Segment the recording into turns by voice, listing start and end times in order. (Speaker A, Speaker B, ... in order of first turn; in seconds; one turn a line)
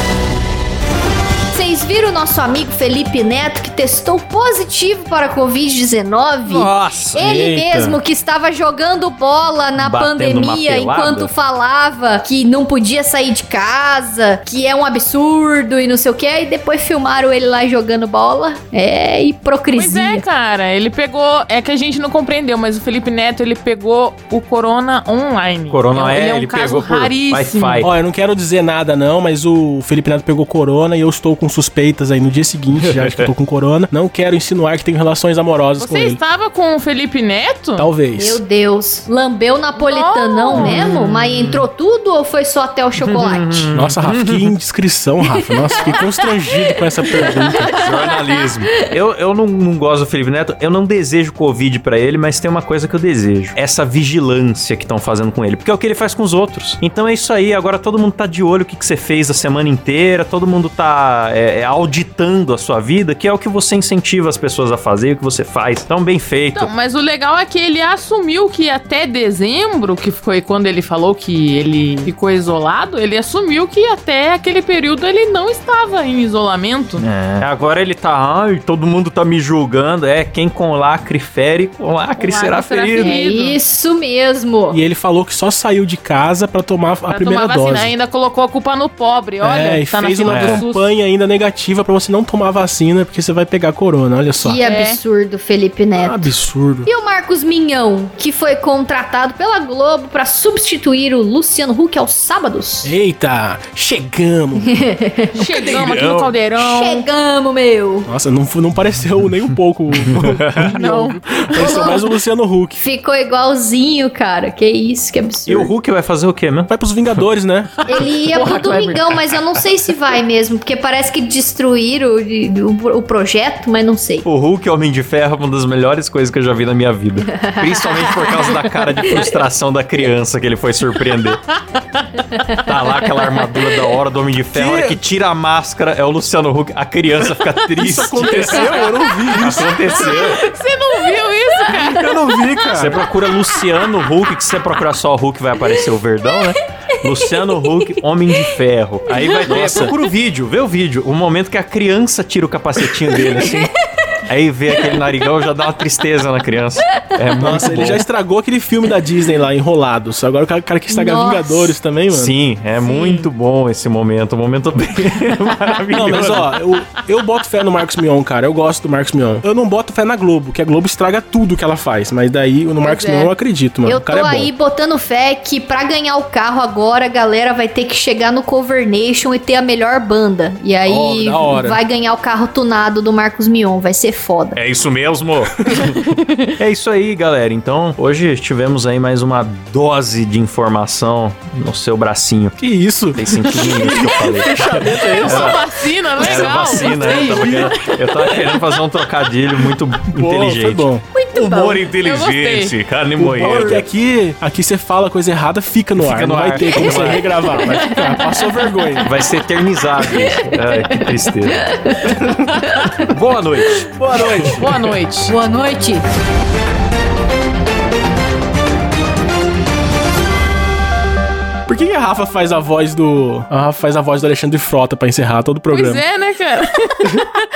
Speaker A: 1.5-20.2
Speaker B: 6.4-7.2
Speaker C: 7.2-8.0
Speaker B: 9.8-11.3
Speaker D: 19.7-27.9
Speaker B: 25.7-27.9
Speaker C: 27.8-36.2
Speaker B: 32.8-33.1
Speaker D: 35.8-37.9
Speaker C: 37.8-38.4
Speaker A: 38.1-43.7
Speaker D: 39.8-40.9
Speaker B: 40.5-41.7
Speaker B: 43.0-44.5
Speaker C: 43.7-47.7
Speaker A: 45.8-46.3
Speaker A: 47.1-48.5
Speaker B: 47.6-66.7
Speaker D: 66.5-77.0
Speaker B: 77.0-83.2
Speaker D: 82.2-83.6
Speaker A: 83.0-84.8
Speaker C: 84.7-88.0
Speaker D: 87.1-90.9
Speaker C: 89.4-94.6
Speaker B: 90.3-90.6
Speaker A: 94.4-96.3
Speaker D: 94.6-95.0
Speaker C: 96.0-96.9
Speaker A: 96.8-102.9
Speaker C: 102.8-104.7
Speaker A: 104.6-105.5
Speaker D: 105.3-107.1
Speaker B: 105.6-106.3
Speaker A: 106.5-108.1
Speaker C: 108.0-112.8
Speaker B: 110.0-110.7
Speaker D: 110.7-112.0
Speaker A: 112.8-115.7
Speaker B: 115.5-117.2
Speaker C: 116.7-117.7
Speaker A: 117.9-124.2
Speaker D: 117.9-118.6
Speaker B: 118.4-119.6
Speaker B: 124.2-131.4
Speaker A: 127.2-129.3
Speaker B: 132.6-140.4
Speaker C: 134.5-135.0
Speaker C: 137.7-139.7
Speaker D: 138.4-138.9
Speaker D: 139.9-142.2
Speaker C: 141.8-143.0
Speaker B: 142.7-153.7
Speaker A: 149.2-149.6
Speaker C: 149.4-149.9
Speaker A: 153.0-153.6
Speaker B: 154.3-158.0
Speaker C: 157.4-162.3
Speaker A: 160.9-161.8
Speaker B: 162.1-166.5
Speaker D: 162.8-163.3
Speaker C: 165.9-174.5
Speaker D: 172.8-173.3
Speaker A: 173.8-184.6
Speaker C: 180.8-181.8
Speaker B: 184.5-186.0
Speaker C: 185.7-185.9
Speaker B: 186.6-192.6
Speaker C: 192.6-195.5
Speaker B: 193.1-195.6
Speaker D: 195.2-197.7
Speaker B: 196.2-203.8
Speaker C: 196.2-198.5
Speaker C: 200.1-201.0
Speaker A: 201.1-201.8
Speaker D: 202.0-202.8
Speaker C: 203.2-209.1
Speaker B: 206.0-207.3
Speaker A: 207.8-208.4
Speaker B: 209.0-211.7
Speaker A: 210.0-210.6
Speaker A: 211.6-212.5
Speaker B: 213.0-214.7
Speaker C: 213.9-214.7
Speaker D: 214.6-215.3
Speaker A: 215.3-216.0
Speaker C: 221.7-226.0
Speaker D: 225.7-227.1